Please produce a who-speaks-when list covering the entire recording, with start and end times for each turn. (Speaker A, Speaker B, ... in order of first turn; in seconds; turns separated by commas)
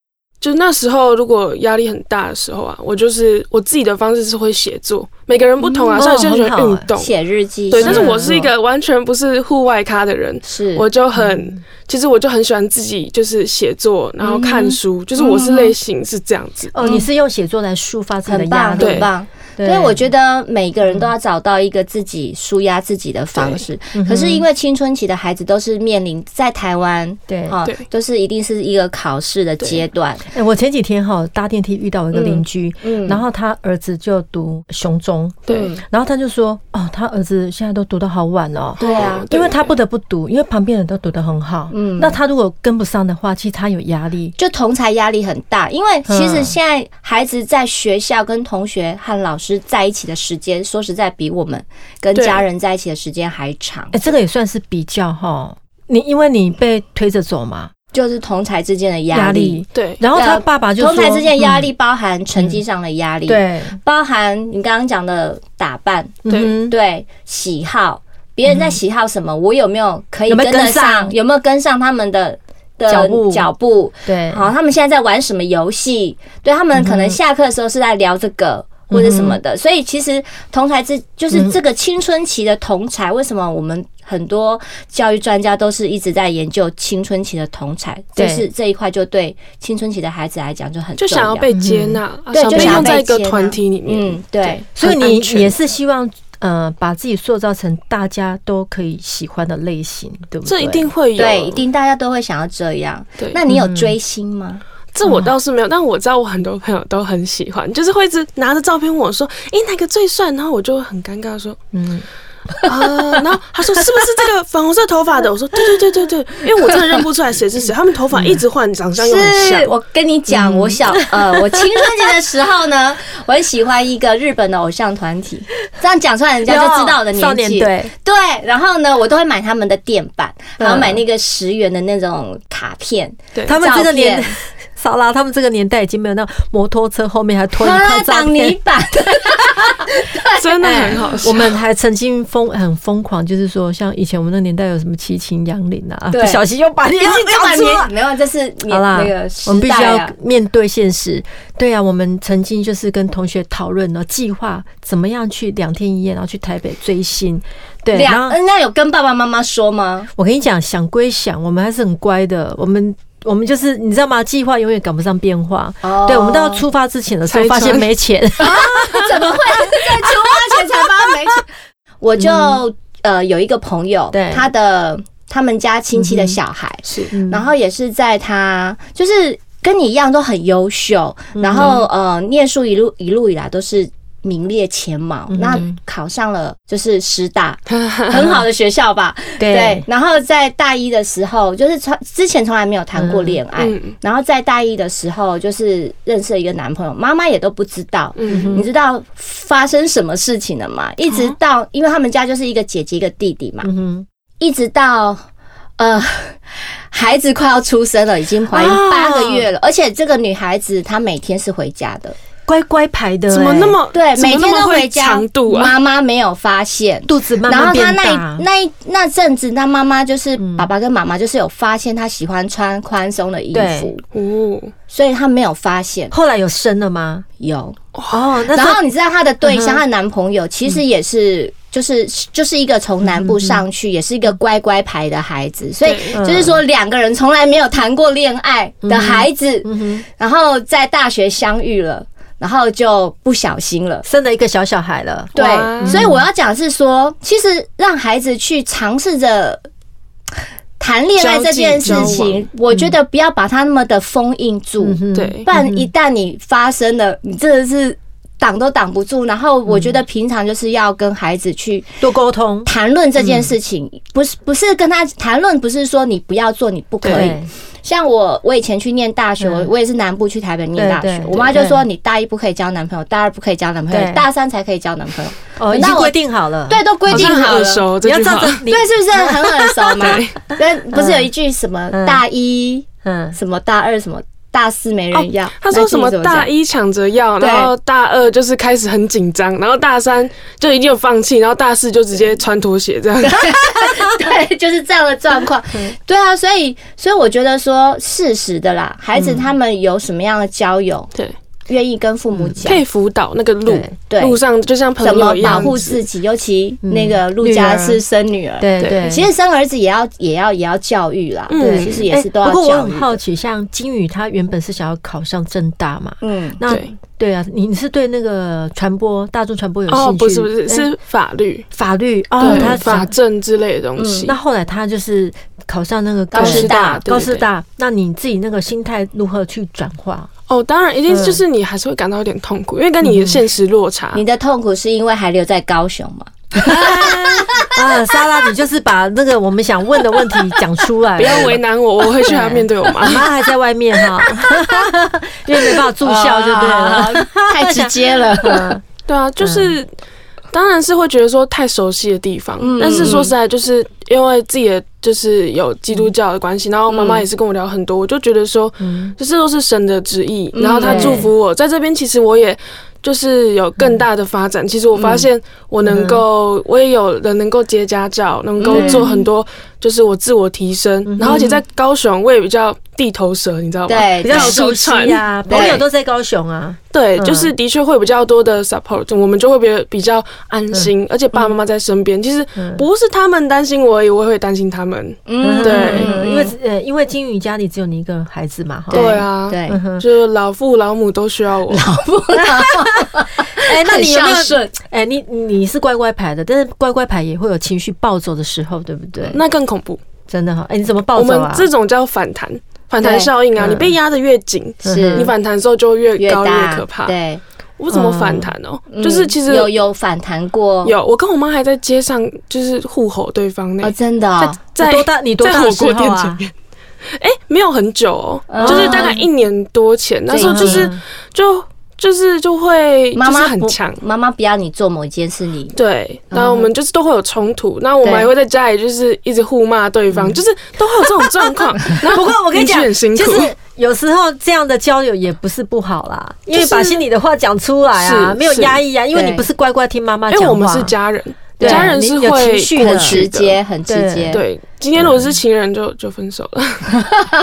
Speaker A: 0.4-7.1, Speaker B: 5.6-5.9, Speaker C: 6.0-6.9, Speaker B: 7.0-8.3, Speaker A: 7.7-16.8, Speaker C: 7.8-8.5, Speaker B: 10.4-10.8, Speaker C: 11.2-11.6, Speaker B: 14.2-15.7, Speaker C: 16.7-20.0, Speaker B: 18.3-30.2, Speaker A: 18.8-19.1, Speaker C: 23.9-24.4, Speaker C: 27.3-27.6, Speaker C: 30.3-44.4, Speaker B: 32.1-33.2, Speaker B: 35.5-35.8, Speaker A: 38.8-39.7, Speaker B: 38.8-39.3, Speaker B: 41.7-42.2, Speaker B: 44.4-54.0, Speaker C: 46.1-46.5, Speaker A: 52.1-52.4, Speaker C: 53.9-57.7, Speaker B: 57.9-59.6, Speaker C: 59.1-61.7, Speaker A: 59.7-60.0, Speaker B: 60.1-91.5, Speaker C: 63.3-63.8, Speaker C: 66.2-66.8, Speaker C: 68.5-68.8, Speaker C: 70.3-71.2, Speaker C: 72.9-73.5, Speaker C: 74.1-74.5, Speaker C: 76.8-77.2, Speaker C: 78.9-79.4, Speaker C: 88.2-88.5, Speaker A: 91.0-94.6, Speaker C: 91.5-92.0, Speaker B: 92.3-95.5, Speaker C: 92.5-93.0, Speaker C: 94.8-100.9, Speaker A: 100.5-101.7, Speaker B: 101.2-104.6, Speaker C: 103.5-103.9, Speaker A: 104.9-111.6, Speaker C: 105.0-105.3, Speaker C: 111.7-112.0, Speaker A: 112.7-119.8, Speaker C: 118.1-118.4, Speaker B: 119.0-134.3, Speaker C: 120.3-121.6, Speaker C: 126.5-127.9, Speaker C: 130.6-131.0, Speaker C: 133.5-138.6, Speaker B: 137.6-141.3, Speaker A: 140.4-141.5, Speaker C: 140.6-147.9, Speaker B: 146.1-146.4, Speaker B: 147.0-150.1, Speaker C: 148.7-158.4, Speaker B: 157.9-160.1, Speaker C: 160.2-171.1, Speaker B: 165.8-166.6, Speaker A: 167.3-167.9, Speaker B: 168.4-171.5, Speaker A: 168.8-169.0, Speaker B: 172.0-203.7, Speaker C: 172.2-172.6, Speaker C: 174.1-174.5, Speaker C: 175.9-176.4, Speaker C: 177.1-177.5, Speaker C: 181.4-181.8, Speaker C: 185.3-185.8, Speaker A: 187.7-188.2, Speaker C: 189.4-189.8, Speaker C: 193.0-193.4, Speaker A: 193.6-193.9, Speaker A: 198.2-198.7, Speaker C: 198.3-198.7, Speaker C: 203.6-204.1, Speaker B: 204.4-205.2, Speaker B: 205.8-212.2, Speaker C: 208.5-209.5, Speaker C: 212.5-213.8, Speaker A: 213.3-215.8, Speaker B: 213.9-224.0, Speaker C: 217.1-218.4, Speaker C: 220.4-220.7, Speaker C: 223.5-223.9, Speaker A: 224.1-224.7, Speaker B: 224.9-226.1, Speaker C: 226.1-227.3, Speaker B: 227.4-227.8, Speaker A: 227.9-228.2, Speaker C: 228.1-228.8, Speaker B: 228.5-244.1, Speaker C: 229.4-229.8, Speaker C: 233.1-233.6, Speaker A: 235.8-236.2, Speaker C: 236.1-236.6, Speaker C: 238.8-240.1, Speaker C: 244.1-246.2, Speaker B: 245.3-249.6, Speaker A: 245.4-246.1, Speaker B: 250.8-262.0, Speaker A: 251.2-252.5, Speaker C: 251.8-252.2, Speaker C: 254.8-255.9, Speaker A: 255.1-255.5, Speaker C: 259.7-259.9, Speaker C: 262.0-263.5, Speaker B: 262.6-276.2, Speaker A: 267.0-267.3, Speaker C: 267.1-267.5, Speaker C: 269.4-269.7, Speaker C: 270.8-271.9, Speaker C: 273.9-274.2, Speaker C: 275.6-277.4, Speaker B: 276.7-277.9, Speaker A: 277.1-278.7, Speaker C: 278.0-279.5, Speaker B: 278.7-286.5, Speaker A: 279.9-280.4, Speaker C: 280.9-281.3, Speaker C: 281.9-282.2, Speaker C: 283.0-283.4, Speaker A: 285.6-293.5, Speaker B: 287.4-287.7, Speaker B: 293.2-301.1, Speaker C: 293.8-294.1, Speaker C: 299.2-299.5, Speaker B: 301.7-302.8, Speaker C: 302.3-302.6, Speaker A: 302.7-306.0, Speaker C: 303.7-303.9, Speaker B: 304.1-304.4, Speaker B: 305.0-313.2, Speaker C: 305.4-305.8, Speaker C: 306.8-308.0, Speaker C: 308.6-309.3, Speaker A: 308.8-309.1, Speaker A: 311.5-312.1, Speaker C: 311.6-320.9, Speaker B: 316.2-316.6, Speaker A: 319.9-321.7, Speaker C: 321.7-323.1, Speaker A: 322.4-324.4, Speaker B: 322.4-322.8, Speaker B: 324.0-324.3, Speaker C: 324.2-330.3, Speaker B: 326.3-327.1, Speaker A: 326.4-327.5, Speaker A: 330.5-334.2, Speaker C: 331.1-331.4, Speaker C: 333.0-333.4, Speaker B: 334.1-337.7, Speaker C: 336.6-341.6, Speaker A: 341.2-343.3, Speaker C: 342.2-348.8, Speaker B: 345.7-348.8, Speaker A: 349.1-349.9, Speaker C: 349.4-349.8, Speaker A: 350.5-375.8, Speaker B: 352.6-353.3, Speaker B: 356.9-357.2, Speaker C: 358.8-359.1, Speaker B: 360.5-361.3, Speaker C: 360.8-361.3, Speaker B: 364.9-365.3, Speaker C: 365.8-366.2, Speaker B: 368.6-369.2, Speaker C: 368.7-369.1, Speaker C: 371.1-371.6, Speaker B: 371.2-371.6, Speaker B: 373.9-374.6, Speaker C: 374.2-377.5, Speaker B: 375.5-375.8, Speaker A: 376.9-386.1, Speaker C: 382.6-382.9, Speaker B: 385.3-386.5, Speaker C: 385.4-390.1, Speaker B: 388.9-389.8, Speaker A: 388.9-391.9, Speaker B: 391.7-394.8, Speaker C: 392.4-399.4, Speaker A: 399.3-400.0, Speaker C: 400.3-401.7, Speaker A: 401.1-407.1, Speaker B: 403.0-403.3, Speaker C: 403.6-403.9, Speaker B: 404.9-405.3, Speaker C: 404.9-405.3, Speaker B: 406.2-407.4, Speaker A: 407.8-409.7, Speaker C: 407.9-408.5, Speaker B: 408.9-410.9, Speaker A: 410.8-416.5, Speaker B: 413.8-414.6, Speaker C: 414.8-416.4, Speaker A: 417.1-424.0, Speaker B: 418.5-419.2, Speaker C: 418.6-419.3, Speaker B: 420.3-420.9, Speaker C: 420.4-421.0, Speaker B: 423.1-425.8, Speaker A: 425.8-433.5, Speaker B: 426.3-426.6, Speaker B: 428.0-428.3, Speaker C: 430.1-430.4, Speaker C: 431.9-440.9, Speaker A: 436.5-437.0, Speaker A: 437.9-438.8, Speaker B: 439.1-439.4, Speaker A: 440.3-443.6, Speaker B: 441.6-441.9, Speaker C: 441.6-443.3, Speaker B: 442.8-444.4, Speaker C: 443.9-444.4, Speaker A: 444.3-447.0, Speaker C: 445.0-445.3